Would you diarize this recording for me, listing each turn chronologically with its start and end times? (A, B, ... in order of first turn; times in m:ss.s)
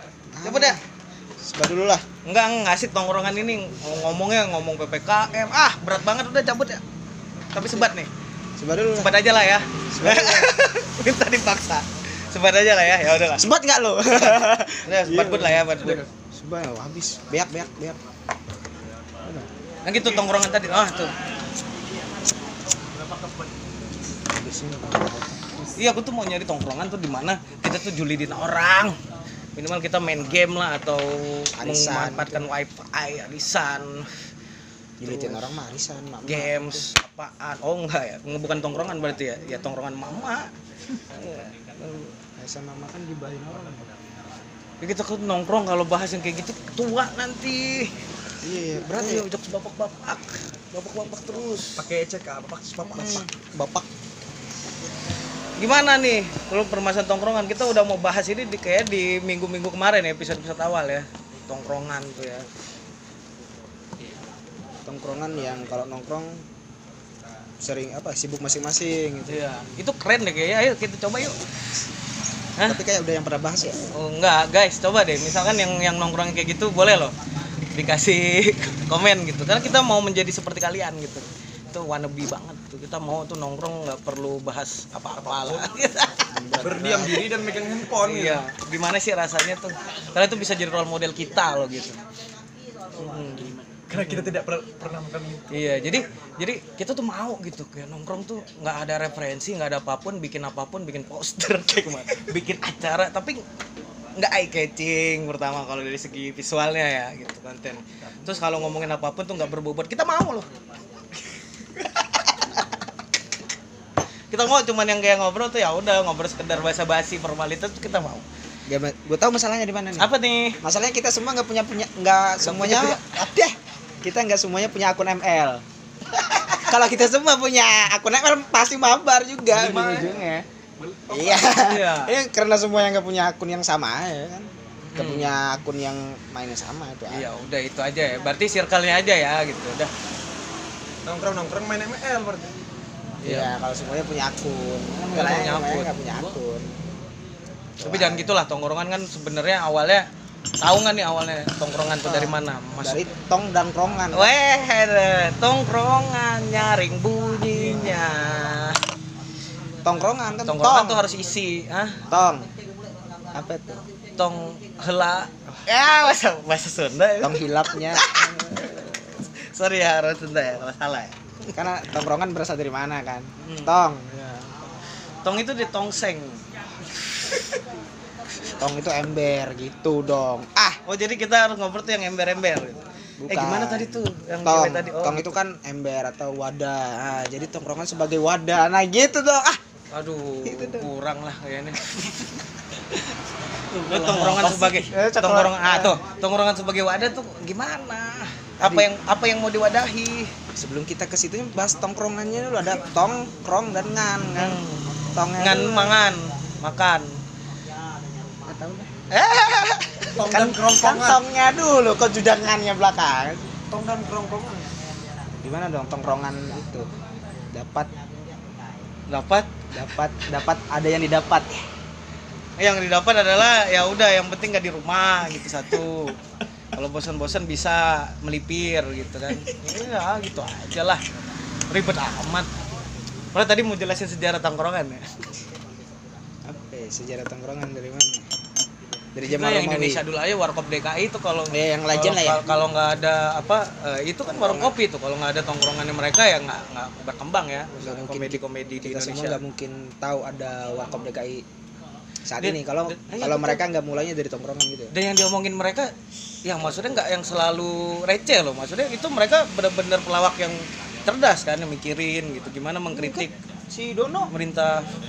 0:00.3-0:00.8 A
0:00.4-0:00.8 B
0:01.4-0:02.0 A
0:02.2-0:06.8 B
0:07.5-0:08.1 B
0:07.6-0:07.9 A
0:08.6-0:09.1 A
0:09.0-0:13.5 B
0:09.9-0:10.6 A
0:13.3-0:18.0 A
0:14.1-0:16.0 B
0:19.8-0:21.1 B
0:24.3-0:25.7 A
0:25.8-0:29.0 B
0:29.6-0:34.3 B
0:31.6-0:32.5 A
0:35.0-0:36.9 A
0:35.0-0:35.5 B
0:36.2-0:42.1 B
0:42.4-0:43.9 A
0:44.8-0:47.9 B
0:48.4-0:49.3 A
0:48.9-0:51.8 B
0:51.8-0:53.2 C
0:52.9-0:53.3 B
0:53.0-0:53.9 A
0:55.6-1:02.5 B
1:04.8-1:06.4 A
1:07.6-1:09.6 A
1:09.3-1:11.4 B
1:12.6-1:13.8 A
1:13.9-1:17.1 B
1:17.7-1:26.3 B
1:25.2-1:25.6 C
1:26.3-1:27.3 A
1:26.6-1:28.4 C
1:28.0-1:32.0 B
1:33.0-1:34.4 B
1:33.9-1:35.5 C
1:35.5-1:43.4 B
1:44.2-1:50.5 B
1:51.7-1:52.7 B
1:54.3-1:58.2 B
1:58.7-2:00.1 A
2:00.0-2:00.6 B
2:00.6-2:03.2 A
2:02.4-2:03.5 C
2:04.0-2:05.6 A
2:06.6-2:10.4 A
2:09.5-2:10.3 C
2:10.8-2:11.6 C
2:11.1-2:17.3 A
2:11.5-2:12.1 B
2:14.8-2:15.4 B
2:17.1-2:19.9 B
2:21.0-2:22.5 C
2:23.2-2:23.5 B
2:23.2-2:26.7 A
2:25.1-2:25.9 B
2:27.8-2:28.4 A
2:27.8-2:30.0 B
2:30.6-2:33.0 B
2:32.0-2:34.3 A
2:34.1-2:38.8 B
2:37.5-2:38.0 A
2:39.8-2:41.1 A
2:40.4-2:42.0 B
2:42.1-2:42.5 A
2:43.3-2:43.9 A
2:44.2-2:51.2 B
2:47.2-2:48.1 A
2:51.5-2:54.6 A
2:53.4-2:53.7 B
2:55.2-2:57.6 B
2:58.6-3:00.8 A
3:00.8-3:05.4 B
3:03.2-3:09.6 A
3:09.9-3:12.3 B
3:10.4-3:10.9 A
3:13.7-3:20.3 B
3:13.8-3:16.0 A
3:18.6-3:18.9 A
3:20.6-3:24.6 A
3:24.4-3:24.9 B
3:25.1-3:26.1 A
3:25.4-3:27.1 B
3:28.4-3:29.1 A
3:29.1-3:31.0 B
3:30.1-3:31.2 C
3:30.2-3:34.0 A
3:35.4-3:36.9 A
3:37.5-3:37.9 A
3:39.1-3:39.7 B
3:39.7-3:41.6 A
3:42.6-3:46.2 B
3:46.7-3:51.0 B
3:51.7-3:52.5 B
3:53.3-3:55.2 B
3:56.4-3:58.2 A
3:59.1-4:00.0 A
3:59.2-4:09.4 B
4:01.5-4:02.5 A
4:04.3-4:04.7 A
4:07.8-4:11.4 A
4:12.2-4:14.9 A
4:12.4-4:13.6 B
4:14.9-4:15.9 B
4:16.4-4:23.3 B
4:22.9-4:24.3 A
4:24.3-4:24.8 B